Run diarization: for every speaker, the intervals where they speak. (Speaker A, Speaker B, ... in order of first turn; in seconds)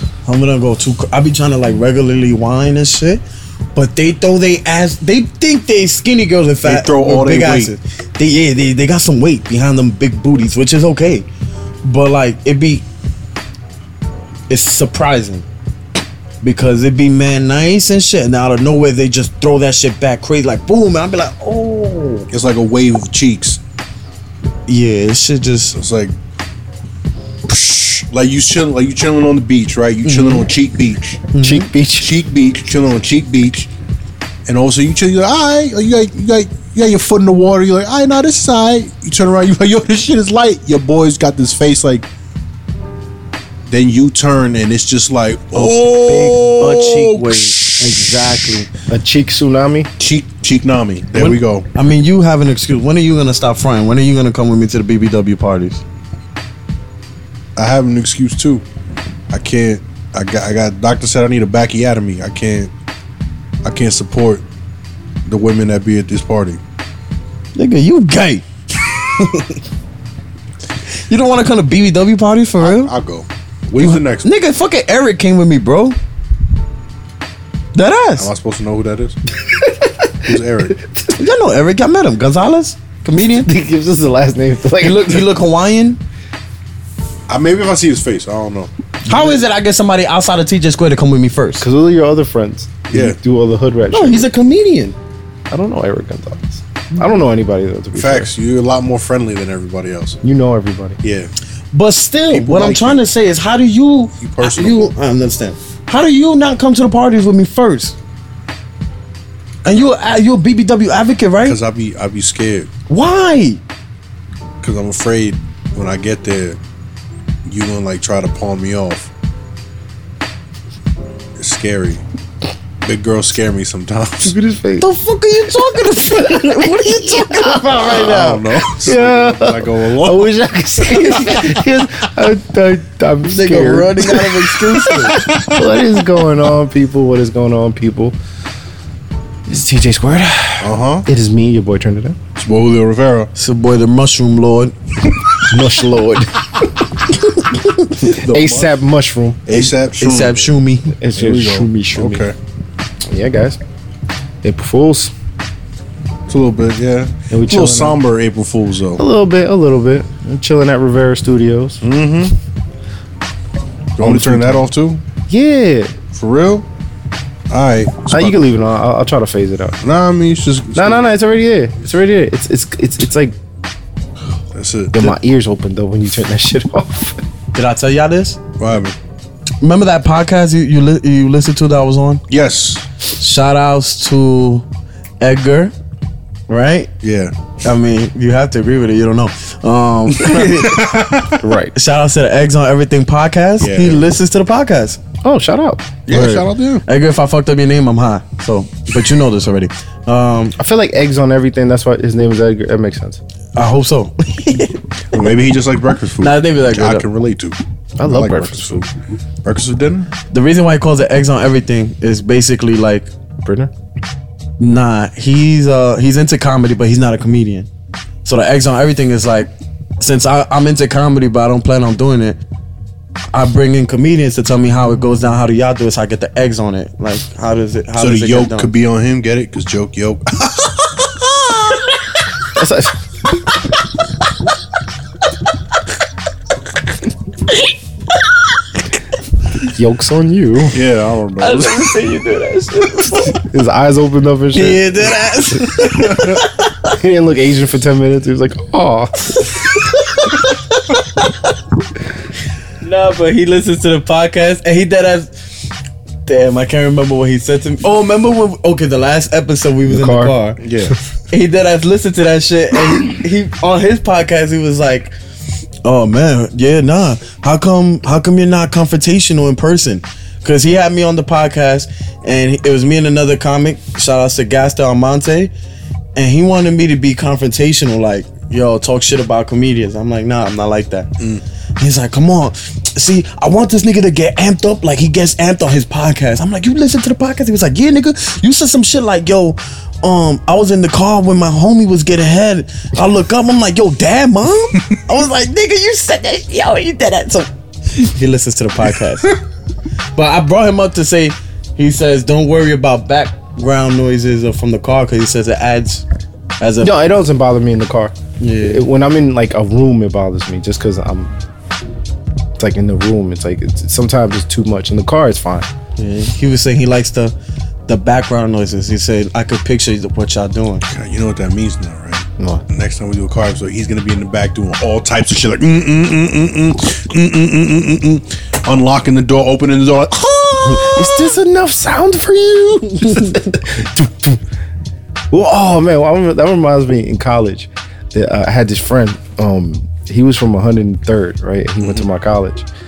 Speaker A: 0.2-3.2, 3.7-11.3, 11.8-12.8, 14.5-15.4, 16.4-22.3, 24.7-25.8, 30.0-30.5, 31.3-31.7, 45.5-48.7, 51.1-55.8, 67.5-69.6, 70.9-72.9, 73.8-76.0, 77.7-78.3, 81.1-83.5, 84.8-86.0, 89.0-91.7, 93.9-95.0, 101.7-108.0, 109.6-111.6, 112.9-113.6, 124.8-127.9, 133.2-135.2, 143.3-144.7, 145.5-146.2, 147.3-148.2, 149.5-150.9, 177.5-178.4, 179.6-182.2, 183.1-184.7, 185.2-185.7, 186.5-186.9, 187.6-190.8, 191.7-195.0, 196.8-200.6, 203.5-204.8, 206.2-207.1, 210.3-213.1, 214.6-217.7, 218.2-222.4, 223.3-228.7, 241.4-243.4, 244.5-246.9, 249.4-251.5, 252.8-255.3, 256.2-260.6, 261.3-265.1, 265.8-275.5, 276.1-281.1, 281.8-299.4, 300.1-306.0, 306.6-306.9, 308.4-308.8, 316.0-317.3, 317.9-320.8
Speaker B: 6.6-7.7, 22.3-23.6, 25.7-26.1, 27.5-31.3, 32.0-33.7, 34.5-42.1, 43.7-48.1, 50.0-51.7, 57.5-58.6, 59.3-62.7, 63.6-64.4, 65.2-66.6, 72.6-74.3, 78.2-79.2, 80.2-80.7, 87.3-88.7, 92.9-93.2, 97.9-100.2, 101.0-101.3, 102.3-103.0, 104.2-104.9, 111.4-112.7, 114.6-116.6, 117.4-119.1, 121.4-122.0, 122.8-124.3, 127.8-130.3, 131.1-131.7, 135.3-135.6, 140.6-141.1, 142.3-143.3, 148.0-148.7, 149.4-150.5, 151.2-152.3, 156.3-159.0, 161.8-162.3, 164.0-165.0, 166.1-166.7, 167.5-168.4, 169.8-171.1, 174.5-175.1, 178.6-178.9, 182.3-182.8, 187.0-187.3, 190.1-191.4, 193.6-194.1, 196.1-196.8, 205.1-208.9, 209.4-210.1, 228.0-231.9, 240.7-242.0, 260.6-261.0, 320.9-331.4
Speaker C: 31.4-32.2, 48.7-49.9, 83.4-85.2, 91.6-94.3, 95.5-98.3, 100.2-101.0, 124.2-124.9, 126.1-138.2, 139.5-142.2, 145.4-146.3, 148.1-149.4, 150.9-152.3, 153.1-153.6, 154.4-155.1, 157.3-158.0, 159.0-161.8, 164.0-164.6, 165.3-166.0, 168.1-169.8, 170.7-173.3, 174.9-177.2, 191.4-191.7, 195.2-196.4, 200.6-203.2, 208.0-208.9, 213.4-213.7, 232.5-232.9, 239.6-240.8, 243.3-245.6, 246.8-249.5, 259.8-260.4, 306.8-311.3, 312.6-315.7, 322.4-322.6, 330.6-334.4, 335.3-342.6